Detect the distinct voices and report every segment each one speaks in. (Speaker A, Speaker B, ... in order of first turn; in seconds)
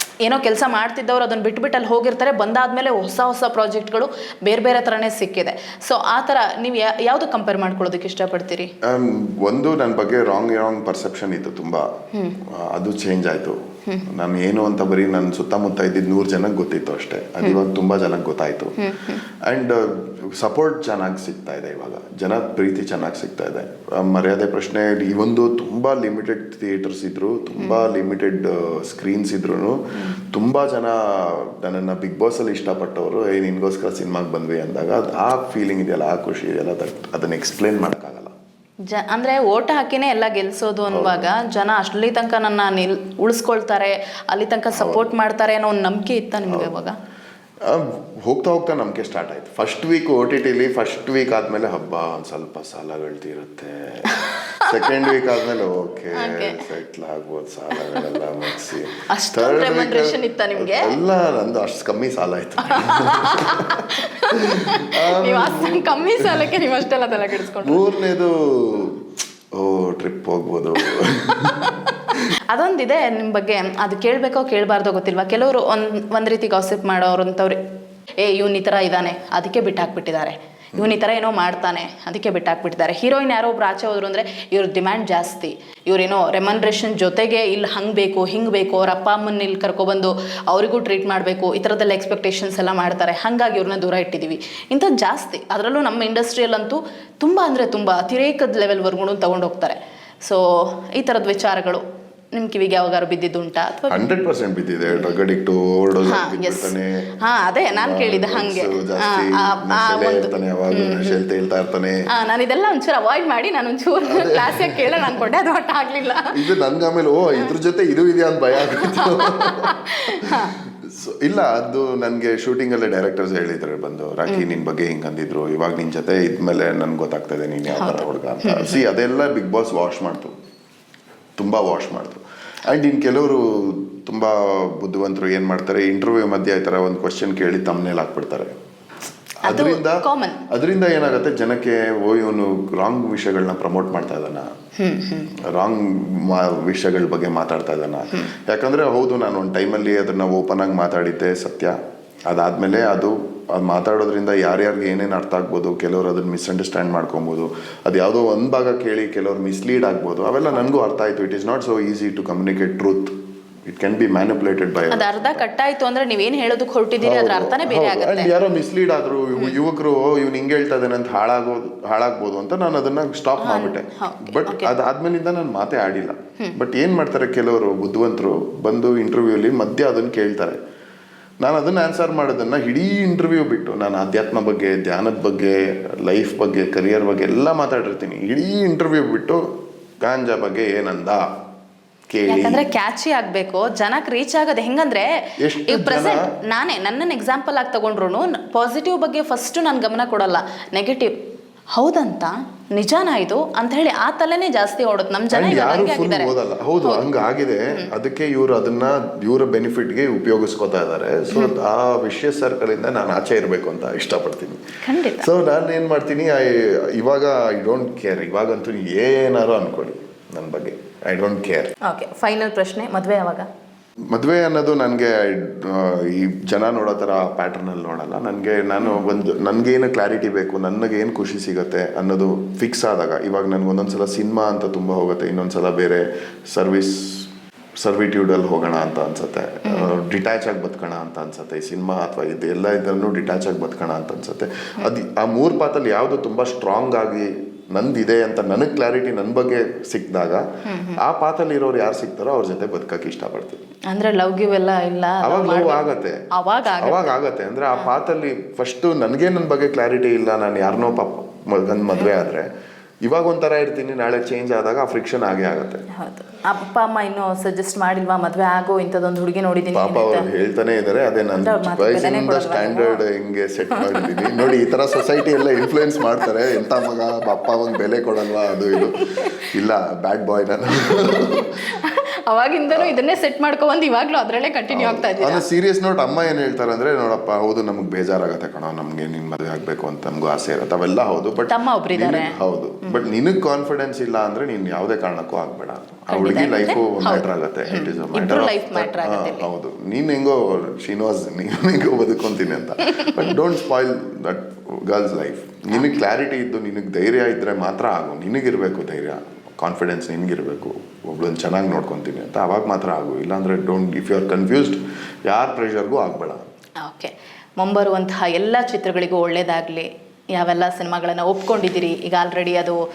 Speaker A: 0.2-8.7, 18.8-19.2, 38.9-47.0, 54.1-55.2, 56.1-56.6, 57.8-58.1, 59.0-61.0, 62.6-67.8, 71.5-77.6, 78.2-101.8, 102.3-104.1, 106.0-111.2, 112.1-116.3, 118.6-120.5, 127.7-128.8, 139.4-140.4, 144.8-145.3, 164.9-168.3, 173.4-174.7, 192.2-195.1, 195.6-201.2, 201.7-206.3, 206.8-207.1, 214.8-215.3, 221.8-223.5, 239.7-239.9, 250.7-251.0, 253.9-257.1, 265.9-270.3, 271.4-273.0, 273.7-276.3, 278.8-279.4, 281.3-285.4, 291.5-292.4, 296.1-299.5, 302.9-303.2, 316.8-322.8
Speaker B: 8.8-38.3, 40.9-41.4, 44.7-45.1, 46.5-46.8, 47.6-66.7, 67.6-72.2, 103.9-107.1, 107.7-112.0, 114.1-115.2, 116.3-130.3, 131.4-138.6, 139.4-144.5, 145.4-151.8, 152.3-163.1, 163.7-165.4, 167.0-180.6, 181.4-189.5, 190.0-191.3, 192.1-192.6, 195.4-196.3, 205.3-214.6, 215.1-221.7, 224.1-237.3, 237.8-253.6, 255.2-256.2, 256.8-262.5, 263.0-265.8, 269.7-281.7, 282.7-283.0, 284.7-316.4